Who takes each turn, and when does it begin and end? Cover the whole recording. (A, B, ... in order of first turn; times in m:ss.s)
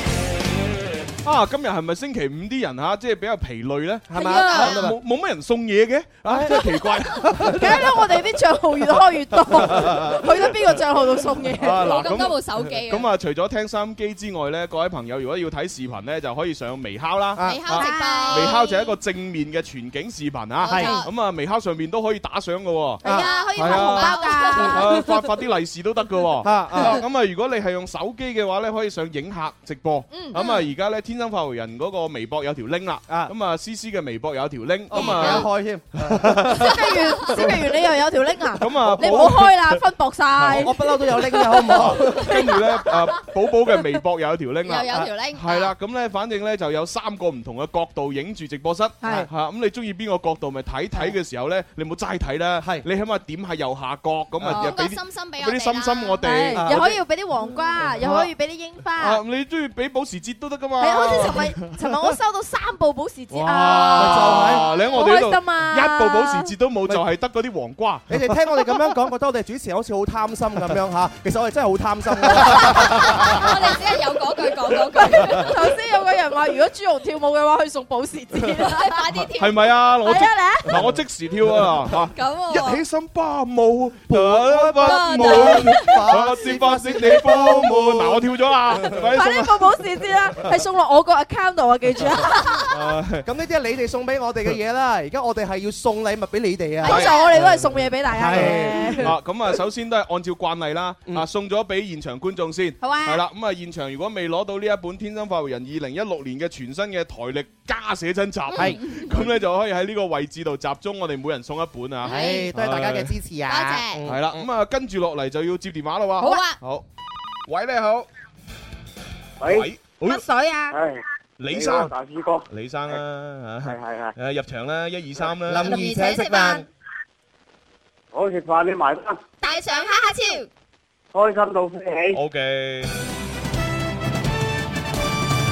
0:01.2-0:07.9 A
0:04.1-0:05.0 B
0:04.1-0:04.8 C
0:06.3-0:06.6 B
0:07.4-0:11.8 C
0:09.5-0:10.5 A
0:11.5-0:17.5 A
0:11.7-0:13.1 D
0:17.3-0:17.8 B
0:17.4-0:19.0 D
0:17.7-0:18.5 C
0:18.3-0:23.0 A
0:20.6-0:21.1 D
0:23.0-0:23.3 B
0:23.0-0:24.9 C
0:23.1-0:25.0 D
0:23.6-0:37.9 A
0:26.4-0:27.0 B
0:30.1-0:30.4 C
0:30.3-0:30.6 D
0:34.9-0:36.6 B
0:34.9-0:35.4 C
0:36.6-0:42.6 C
0:38.6-0:39.8 A
0:38.7-0:39.4 B
0:40.4-0:40.7 A
0:40.5-0:42.6 B
0:41.8-0:57.0 A
0:44.7-0:45.7 D
0:49.0-0:49.3 C
0:52.6-0:52.8 B
0:54.5-0:56.2 D
0:56.2-0:59.2 C
0:56.6-0:56.9 B
0:57.8-0:58.3 A
0:59.0-1:01.8 A
1:00.8-1:06.5 C
1:03.3-1:08.7 A
1:04.0-1:04.7 B
1:08.1-1:13.6 B
1:12.5-1:15.6 D
1:15.0-1:19.0 C
1:18.7-1:19.8 D
1:19.4-1:29.7 A
1:20.0-1:20.7 C
1:22.1-1:22.8 D
1:24.1-1:27.9 B
1:24.8-1:26.0 D
1:26.6-1:27.8 C
1:28.8-1:32.8 C
1:32.6-1:33.3 A
1:33.2-1:37.2 B
1:36.8-1:39.1 C
1:36.8-1:37.3 A
1:38.1-1:39.1 B
1:38.3-1:53.1 A
1:42.8-1:43.2 C
1:48.6-1:49.3 B
1:52.0-1:52.5 D
1:52.1-1:54.4 B
1:53.5-1:54.0 D
1:54.1-1:56.8 A
1:56.2-1:56.6 D
1:57.5-1:58.1 A
1:59.4-1:59.7 E
1:59.4-2:00.2 A
2:00.0-2:00.8 C
2:00.7-2:03.0 E
2:01.4-2:01.9 A
2:02.5-2:05.8 A
2:03.6-2:04.1 E
2:05.4-2:06.6 B
2:05.6-2:06.6 D
2:08.1-2:09.2 E
2:09.4-2:10.5 D
2:11.1-2:12.2 E
2:12.1-2:13.0 A